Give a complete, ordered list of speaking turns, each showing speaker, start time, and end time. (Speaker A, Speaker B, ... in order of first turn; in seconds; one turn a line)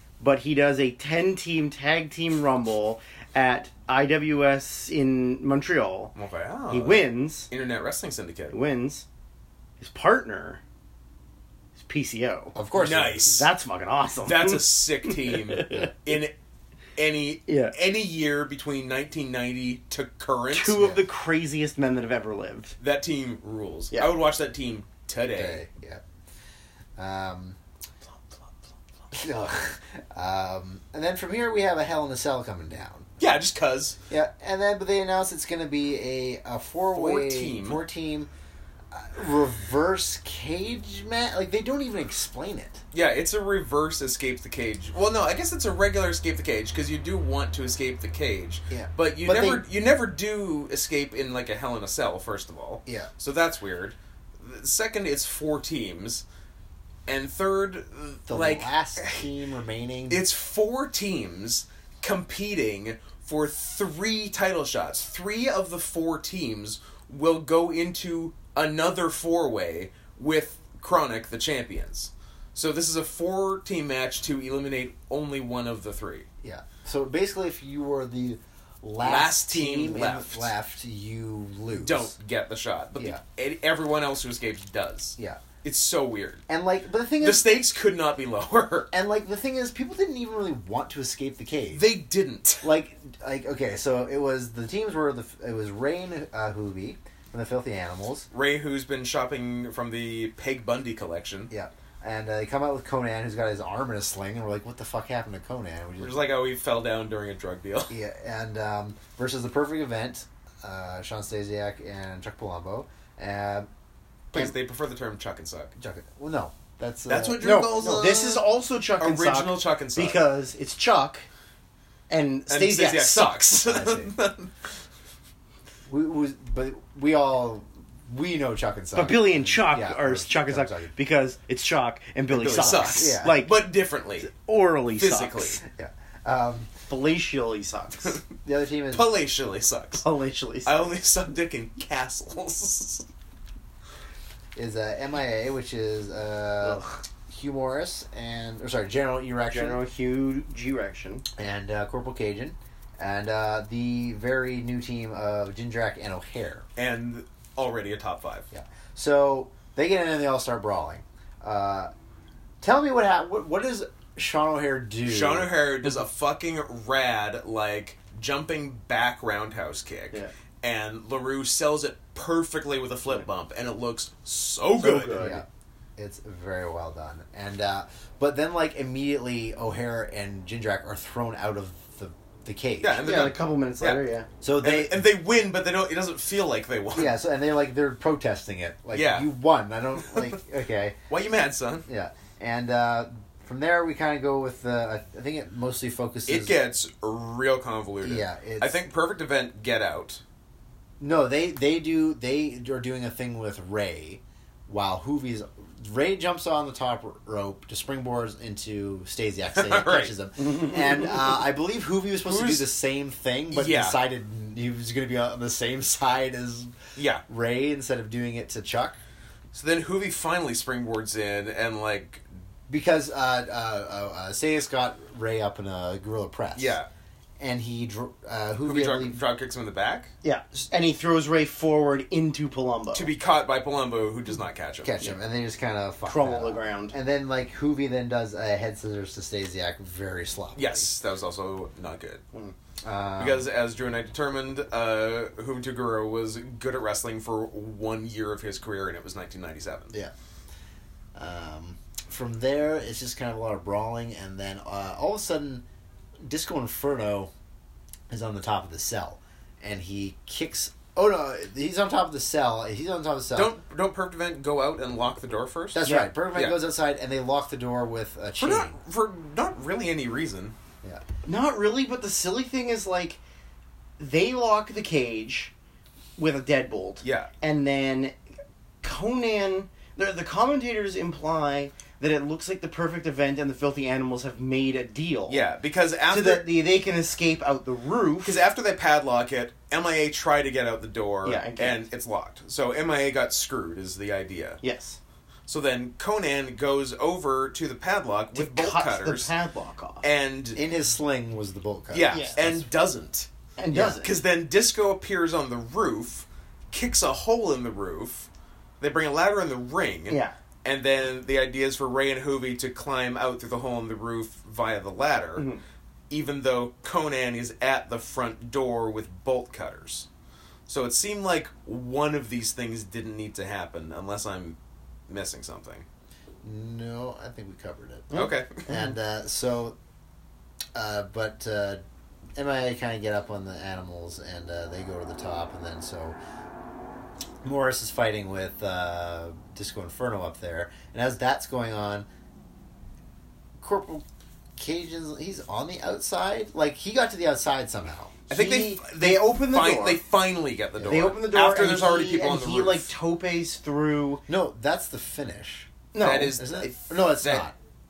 Speaker A: 0.2-6.1
Speaker B: 6.2-8.6
Speaker A: 6.7-7.5
Speaker A: 8.5-9.1
Speaker A: 9.8-10.6
Speaker A: 11.8-12.6
Speaker C: 12.6-13.3
Speaker B: 12.7-13.5
Speaker A: 13.2-15.9
Speaker B: 14.2-16.4
Speaker B: 17.0-20.8
Speaker A: 17.5-17.7
Speaker A: 20.5-22.8
Speaker C: 20.8-21.0
Speaker B: 22.8-25.6
Speaker C: 25.3-26.0
Speaker C: 27.0-27.6
Speaker C: 29.1-33.1
Speaker B: 33.2-34.0
Speaker C: 34.1-38.3
Speaker B: 36.9-37.8
Speaker C: 38.9-42.8
Speaker B: 42.9-56.2
Speaker A: 49.2-49.6
Speaker B: 57.1-59.3
Speaker C: 58.3-60.2
Speaker B: 60.1-76.3
Speaker C: 76.4-82.1
Speaker B: 79.0-80.5
Speaker B: 81.8-86.4
Speaker C: 85.2-85.4
Speaker C: 86.5-87.5
Speaker B: 87.2-88.9
Speaker C: 88.9-91.9
Speaker B: 91.7-92.8
Speaker C: 92.6-98.3
Speaker B: 98.3-101.5
Speaker C: 101.5-106.2
Speaker B: 106.0-107.9
Speaker C: 107.9-113.7
Speaker B: 114.3-115.7
Speaker C: 115.8-117.8
Speaker B: 117.1-120.3
Speaker A: 117.4-121.3
Speaker A: 122.1-123.6
Speaker B: 122.5-124.5
Speaker C: 123.6-124.1
Speaker C: 125.9-130.9
Speaker A: 128.9-133.6
Speaker B: 132.3-134.3
Speaker C: 132.5-133.4
Speaker A: 134.2-135.6
Speaker B: 135.0-135.6
Speaker C: 135.7-136.7
Speaker A: 136.9-138.2
Speaker C: 138.4-139.1
Speaker B: 138.9-140.1
Speaker A: 140.0-140.9
Speaker B: 140.7-143.1
Speaker C: 144.6-149.8
Speaker A: 146.6-147.0
Speaker A: 149.5-151.2
Speaker C: 151.4-156.7
Speaker B: 156.8-158.5
Speaker C: 158.5-161.9
Speaker C: 162.6-165.5
Speaker B: 165.1-175.3
Speaker A: 174.8-175.4
Speaker C: 175.1-175.5
Speaker C: 176.0-183.2
Speaker B: 182.8-184.1
Speaker A: 183.0-184.3
Speaker C: 184.4-185.1
Speaker B: 184.6-187.2
Speaker C: 186.9-191.0
Speaker B: 188.9-189.3
Speaker B: 190.0-190.3
Speaker B: 191.1-191.9
Speaker C: 191.9-196.6
Speaker B: 196.3-200.2
Speaker C: 198.0-198.8
Speaker C: 201.0-219.0
Speaker B: 209.5-210.1
Speaker B: 212.2-212.7
Speaker B: 213.5-214.0
Speaker B: 217.0-217.2
Speaker B: 219.5-222.2
Speaker C: 222.7-226.8
Speaker B: 226.6-226.9
Speaker C: 227.4-229.2
Speaker B: 228.6-230.1
Speaker A: 230.2-233.1
Speaker B: 232.9-234.9
Speaker C: 234.8-240.9
Speaker A: 236.1-236.9
Speaker B: 240.6-242.2
Speaker C: 242.8-243.5
Speaker B: 243.2-249.9
Speaker C: 251.2-255.7
Speaker C: 256.2-257.3
Speaker C: 258.1-263.5
Speaker B: 263.4-265.8
Speaker C: 265.7-268.8
Speaker A: 265.8-266.1
Speaker B: 268.4-270.6
Speaker A: 271.2-273.2
Speaker A: 274.0-275.5
Speaker A: 276.2-278.2
Speaker B: 277.0-277.3
Speaker A: 278.8-285.4
Speaker B: 285.3-286.5
Speaker A: 286.1-288.4
Speaker B: 288.2-294.6
Speaker A: 291.2-291.9
Speaker A: 294.6-295.0
Speaker B: 295.5-299.3
Speaker A: 298.3-300.1
Speaker B: 300.0-300.6
Speaker C: 300.5-302.7
Speaker B: 301.9-308.3
Speaker A: 302.1-302.4
Speaker A: 303.6-304.1
Speaker B: 308.8-315.5
Speaker A: 310.1-310.4
Speaker B: 316.1-320.1
Speaker B: 320.7-324.6
Speaker B: 325.1-325.9
Speaker C: 326.4-329.8
Speaker A: 328.1-328.9
Speaker B: 328.1-328.6
Speaker C: 330.8-331.8
Speaker C: 332.4-336.2
Speaker C: 337.4-342.1
Speaker C: 343.6-344.1
Speaker C: 344.6-348.2
Speaker A: 348.3-350.0
Speaker B: 348.3-352.9
Speaker A: 350.8-354.2
Speaker C: 354.3-355.8
Speaker A: 355.9-356.4
Speaker B: 356.0-357.5
Speaker C: 356.4-357.6